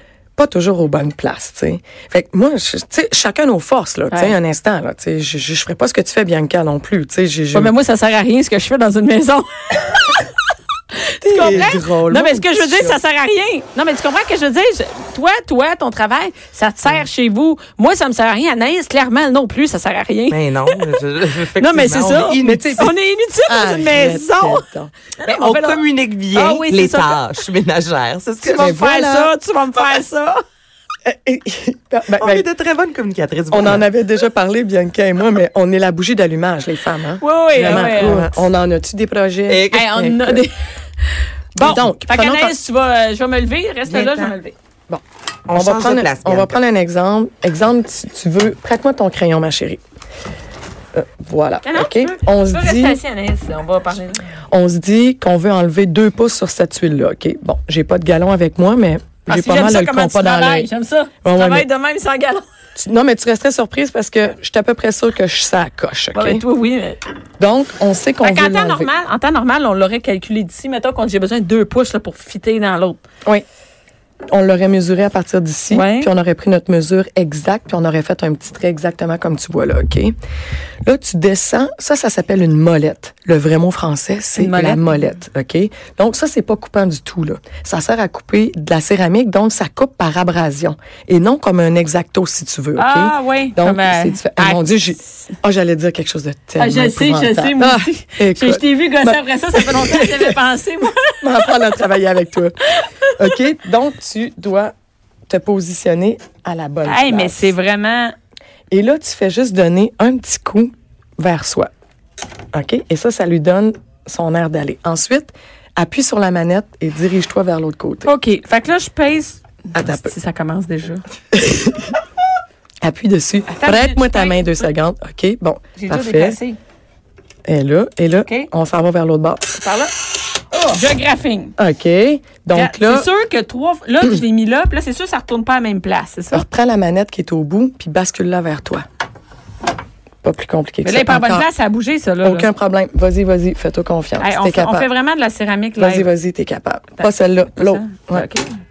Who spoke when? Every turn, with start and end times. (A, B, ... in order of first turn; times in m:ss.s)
0:00.4-0:07.7 A
0:07.5-0:10.2 B
0:11.1-0:21.0 B
0:11.2-0:13.0 A
0:20.3-0:22.9 C
0:21.6-0:24.6 B
0:22.4-0:22.9 A
0:23.5-0:24.9 A
0:25.2-0:25.8 B
0:25.2-0:28.7 C
0:26.3-0:27.2 B
0:28.4-0:30.4 B
0:28.6-0:29.3 A
0:31.0-0:32.4 A
0:32.2-0:33.9 C
0:33.5-0:40.4 A
0:37.2-0:38.2 B
0:37.6-0:38.3 C
0:39.5-0:40.0 C
0:39.7-0:44.6 B
0:41.6-0:42.5 A
0:44.0-0:44.2 A
0:44.9-0:49.8 A
0:45.5-0:46.6 C
0:50.9-0:53.0 A
0:51.6-0:54.2 B
0:54.5-1:00.7 A
0:59.3-1:02.4 B
1:01.2-1:01.7 A
1:02.8-1:06.4 A
1:06.2-1:07.0 B
1:07.4-1:08.9 A
1:08.2-1:13.0 B
1:14.3-1:20.1 A
1:15.7-1:16.1 B
1:20.8-1:40.4 A
1:24.4-1:24.8 B
1:32.8-1:34.6 B
1:36.6-1:41.8 B
1:41.1-1:42.6 A
1:42.8-1:43.4 B
1:43.2-1:44.7 A
1:45.3-1:47.5 A
1:46.8-1:48.2 B
1:48.7-1:51.7 A
1:52.5-1:58.1 A
1:58.0-2:01.0 B
1:59.7-2:00.1 A
2:01.3-2:01.9 A
2:02.8-2:06.4 A
2:03.5-2:04.7 B
2:05.8-2:06.6 B
2:07.5-2:09.5 A
2:09.6-2:09.9 B
2:10.6-2:11.5 B
2:11.6-2:13.1 A
2:12.5-2:16.4 B
2:16.3-2:18.8 A
2:20.2-2:21.5 A
2:20.8-2:22.5 B
2:22.2-2:24.9 A
2:24.2-2:26.1 B
2:25.8-2:28.3 A
2:27.0-2:28.5 B